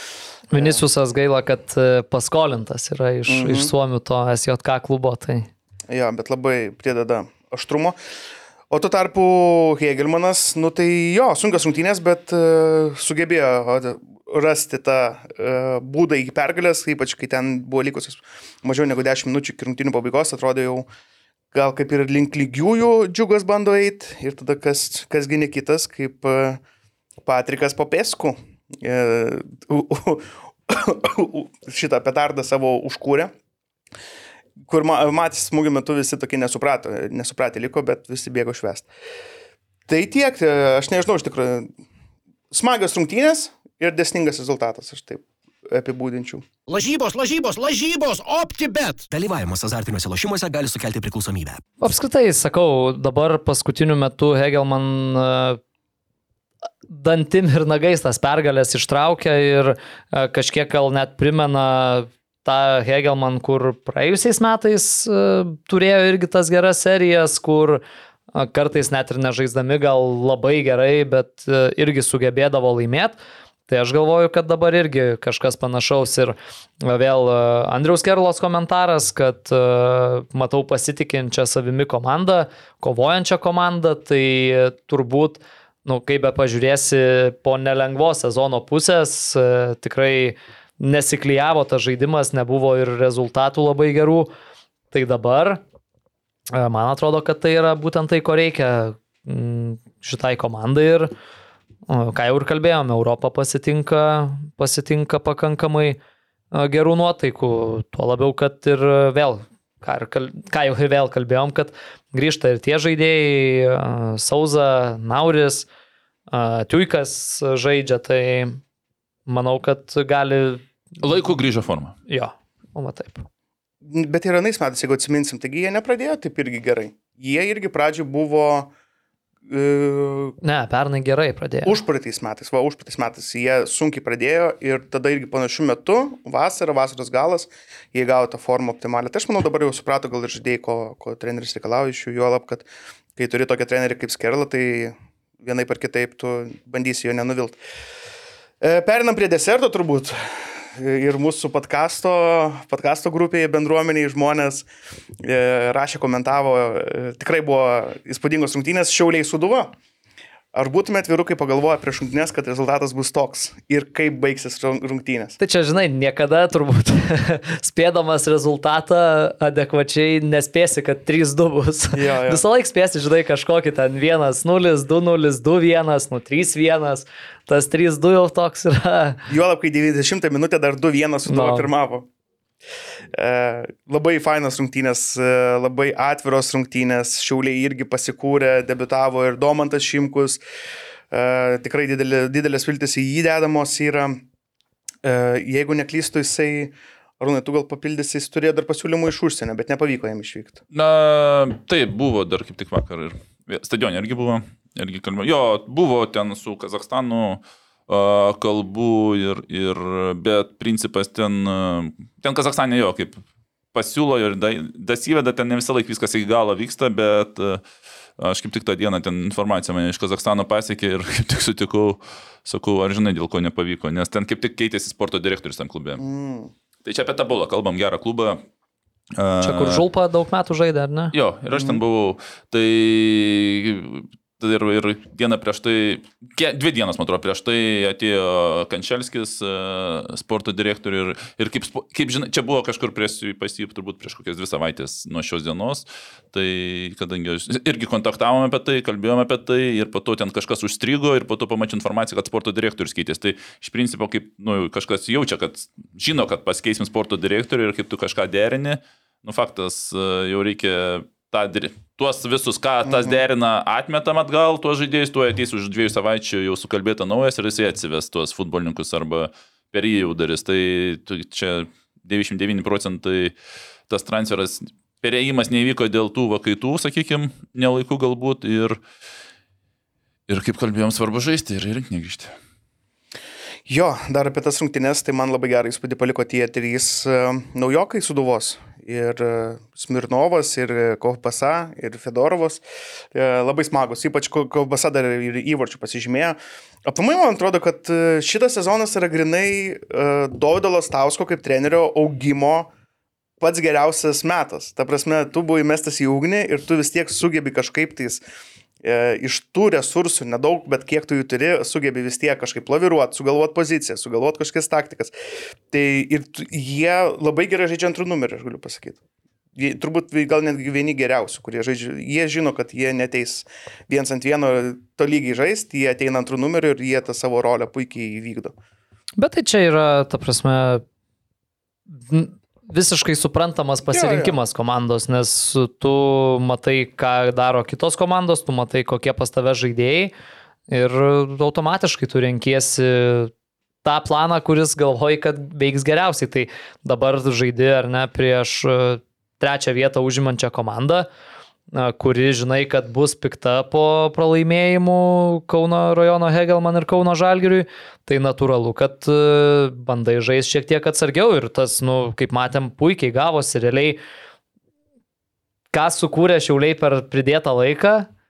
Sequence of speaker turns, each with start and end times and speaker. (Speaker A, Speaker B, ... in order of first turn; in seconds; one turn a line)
Speaker A: 0.5-5.5
Speaker B: 0.5-0.8
Speaker B: 3.3-3.7
Speaker B: 5.9-8.0
Speaker B: 8.7-20.9
Speaker B: 21.5-26.6
Speaker B: 27.2-33.3
Speaker B: 34.7-38.9
Speaker B: 39.9-41.7
Speaker B: 42.5-46.5
Speaker C: 46.7-49.1
Speaker D: 49.1-51.6
Speaker A: 51.8-55.6
Speaker A: 56.9-67.8
Speaker A: 68.3-94.3
Speaker A: 94.9-95.6
Speaker A: 96.5-101.1
Speaker A: 101.9-106.0
Speaker A: 106.5-115.7
Speaker A: 116.3-118.6
Speaker A: 119.3-120.7
Speaker E: 121.0-122.0
Speaker A: 122.1-123.3
Speaker B: 123.8-128.7
Speaker B: 129.5-130.4
Speaker A: 130.4-131.8
Speaker B: 131.6-147.6
Speaker B: 148.6-154.7
Speaker B: 155.2-159.8
Speaker B: 160.5-165.4
Speaker A: 165.4-179.2
Speaker B: 171.9-172.4
Speaker B: 179.3-182.1
Speaker A: 181.3-181.7
Speaker B: 183.1-190.4
Speaker B: 191.1-194.2
Speaker B: 195.0-200.6
Speaker E: 200.7-213.2
Speaker E: 213.7-217.6
Speaker E: 218.2-226.0
Speaker B: 226.0-226.5
Speaker E: 226.8-228.4
Speaker E: 229.2-229.8
Speaker A: 229.4-231.1
Speaker E: 231.1-273.3
Speaker B: 231.5-231.8
Speaker B: 262.8-263.2
Speaker E: 273.9-278.8
Speaker E: 280.3-282.4
Speaker B: 283.7-302.7
Speaker B: 303.4-308.2
Speaker B: 308.8-315.1
Speaker B: 315.7-319.0
Speaker B: 319.6-328.6
Speaker A: 329.2-330.8
Speaker A: 332.0-340.1
Speaker B: 333.9-334.4
Speaker A: 340.7-343.3
Speaker A: 343.8-351.1
Speaker A: 351.7-364.0
Speaker A: 365.7-368.1